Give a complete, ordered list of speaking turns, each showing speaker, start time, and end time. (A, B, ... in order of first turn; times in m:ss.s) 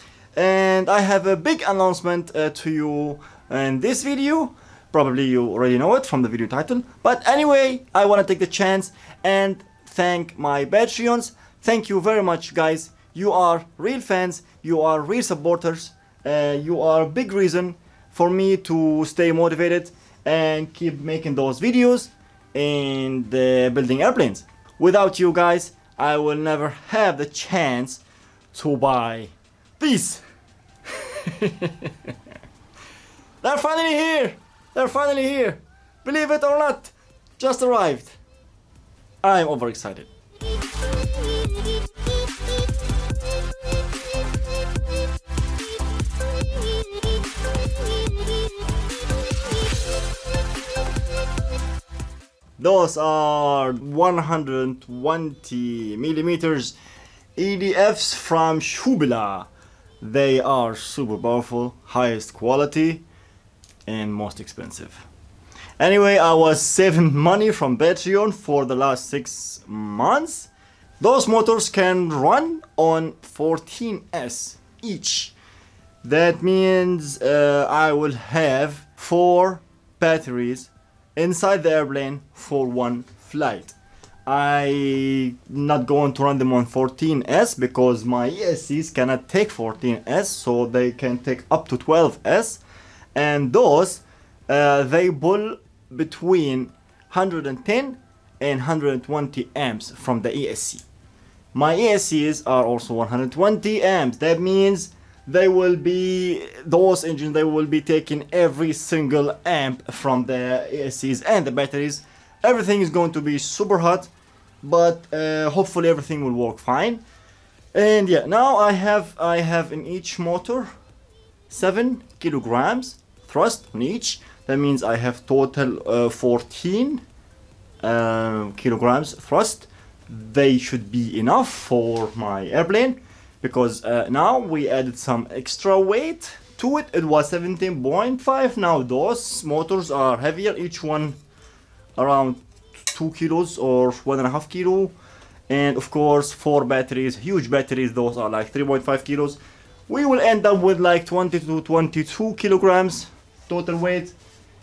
0:00.4-0:28.0 A
0:28.5-0:30.2 A
0:30.9-0:31.9 A
0:33.4-0:38.2 A
0:39.2-0:40.1 A
0:52.6-0:56.7 A
0:57.4-0:59.5 A
1:00.0-1:03.0 A
1:03.9-1:05.0 A
1:05.8-1:15.4 A
1:16.0-1:32.6 A
1:33.1-1:40.8 A
1:41.5-1:54.1 A
1:54.6-1:57.0 A
1:57.7-2:00.7 A
2:01.5-2:07.0 A
2:07.8-2:21.2 A
2:22.0-2:24.9 A
2:25.5-2:34.1 A